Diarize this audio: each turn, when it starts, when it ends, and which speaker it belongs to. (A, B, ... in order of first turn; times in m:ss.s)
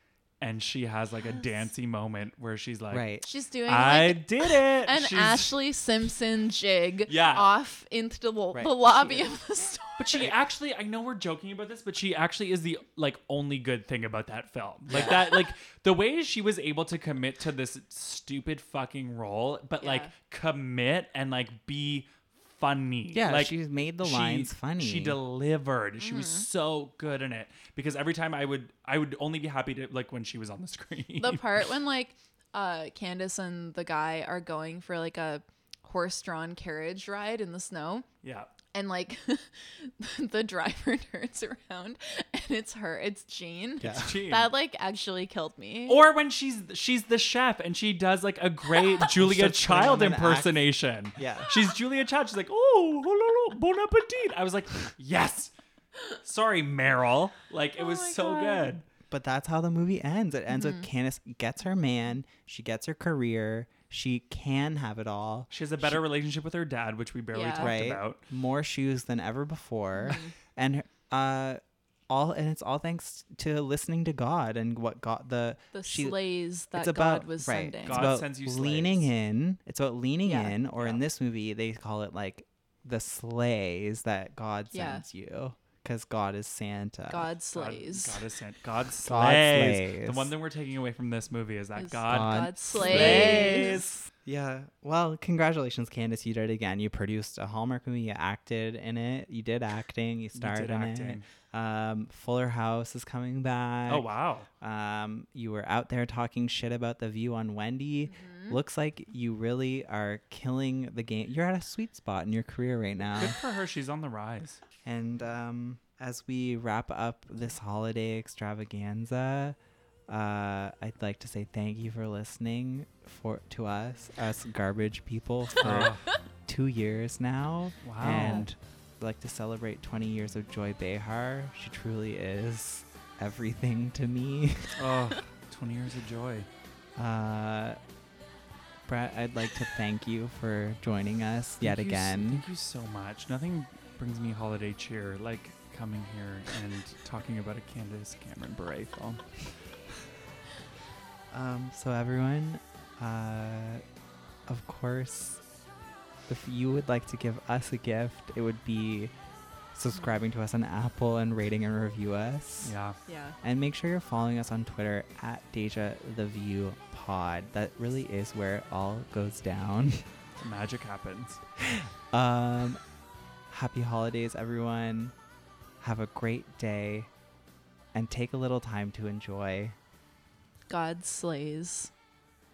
0:00.4-0:03.1 A
0:02.9-0:03.2 B
0:03.2-0:10.3 C
0:03.6-0:05.5 A
0:07.1-0:07.5 A
0:08.5-0:09.3 B
0:10.0-0:31.6 A
0:14.9-0:15.2 B
0:15.0-0:15.3 C
0:19.8-0:20.1 C
0:23.1-0:25.2 B
0:26.0-0:26.4 C
0:31.2-0:38.0 C
0:38.2-0:38.5 A
0:38.7-0:46.0 C
0:43.8-0:44.1 B
0:43.8-0:44.5 A
0:45.8-0:55.5 A
0:49.1-0:51.6 B
0:56.2-0:58.8 A
0:57.8-0:58.7 C
0:59.1-1:06.0 B
1:00.5-1:00.8 C
1:05.5-1:08.2 A
1:07.3-1:07.7 C
1:07.5-1:16.2 B
1:10.0-1:10.3 C
1:15.7-1:18.1 C
1:16.7-1:27.3 B
1:17.8-1:19.1 A
1:20.2-1:20.5 C
1:24.7-1:25.0 C
1:27.1-1:28.2 C
1:27.5-1:33.9 A
1:29.0-1:30.3 B
1:31.8-1:33.7 C
1:32.1-1:44.1 B
1:40.4-1:41.2 A
1:43.9-1:44.5 A
1:44.6-1:53.4 B
1:48.1-1:48.6 C
1:53.2-1:54.6 A
1:54.8-1:59.6 B
2:00.1-2:05.9 B
2:05.6-2:06.0 A
2:06.4-2:14.8 B
2:07.8-2:08.4 A
2:14.8-2:16.5 A
2:17.0-2:17.8 B
2:18.8-2:22.4 B
2:21.6-2:29.7 A
2:31.3-2:33.8 B
2:34.5-2:35.4 B
2:36.3-2:39.1 B
2:39.7-2:42.7 B
2:42.6-2:43.0 A
2:43.0-2:43.4 C
2:43.4-2:50.1 B
2:50.4-2:51.4 A
2:51.6-2:52.8 B
2:53.5-2:55.1 B
2:55.8-2:57.1 B
2:57.9-2:59.8 B
3:00.7-3:01.9 C